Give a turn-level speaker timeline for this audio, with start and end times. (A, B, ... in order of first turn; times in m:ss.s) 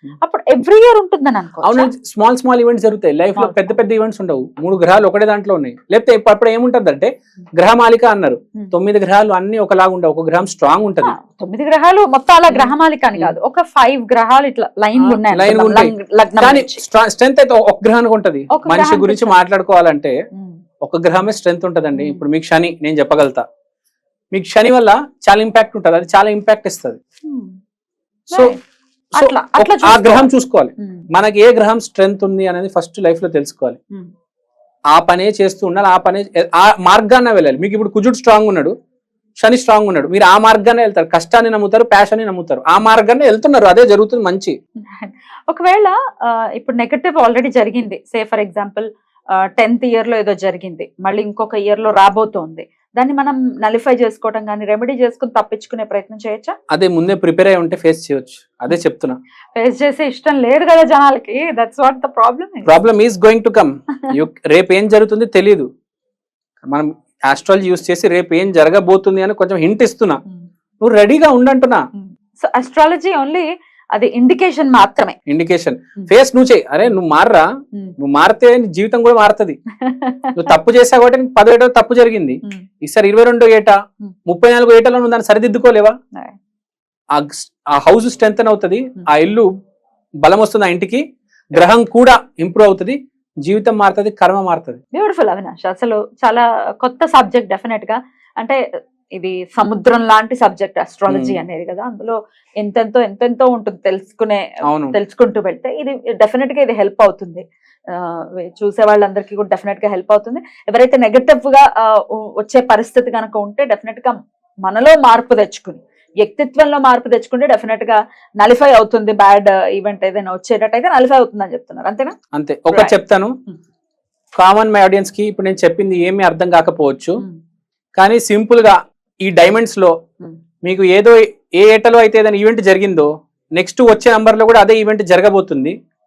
0:00.2-0:01.9 A
0:01.6-0:11.1 B
0:03.4-0:03.8 A
0:11.0-0:16.8 A
0:12.5-0:13.3 B
0:15.0-0:20.2 B
0:18.5-0:19.4 A
0:20.3-0:20.6 A
0:20.8-0:23.4 B
0:22.0-0:22.2 A
0:24.3-0:27.0 B
0:27.3-0:27.6 A
0:28.3-0:28.6 A
0:29.2-0:31.0 A
0:29.2-0:33.8 B
0:34.9-0:38.7 B
0:39.4-0:44.6 B
0:44.9-0:48.9 A
0:49.6-0:56.5 A
0:56.7-0:59.2 B
0:59.6-1:02.7 A
1:02.7-1:05.7 B
1:06.6-1:10.2 B
1:10.8-1:11.8 B
1:12.0-1:15.2 A
1:15.3-1:17.4 B
1:18.0-1:19.6 B
1:19.8-1:20.5 A
1:20.4-1:23.8 B
1:24.3-1:25.9 B
1:27.1-1:29.5 B
1:30.2-1:31.0 B
1:31.6-1:34.8 B
1:34.9-1:38.6 A
1:39.2-2:02.1 A
1:41.1-1:41.4 B
1:44.6-1:45.0 B
2:02.4-2:03.3 B
2:02.7-2:03.0 A
2:04.4-2:07.2 B
2:08.0-2:09.9 B
2:10.6-2:15.8 B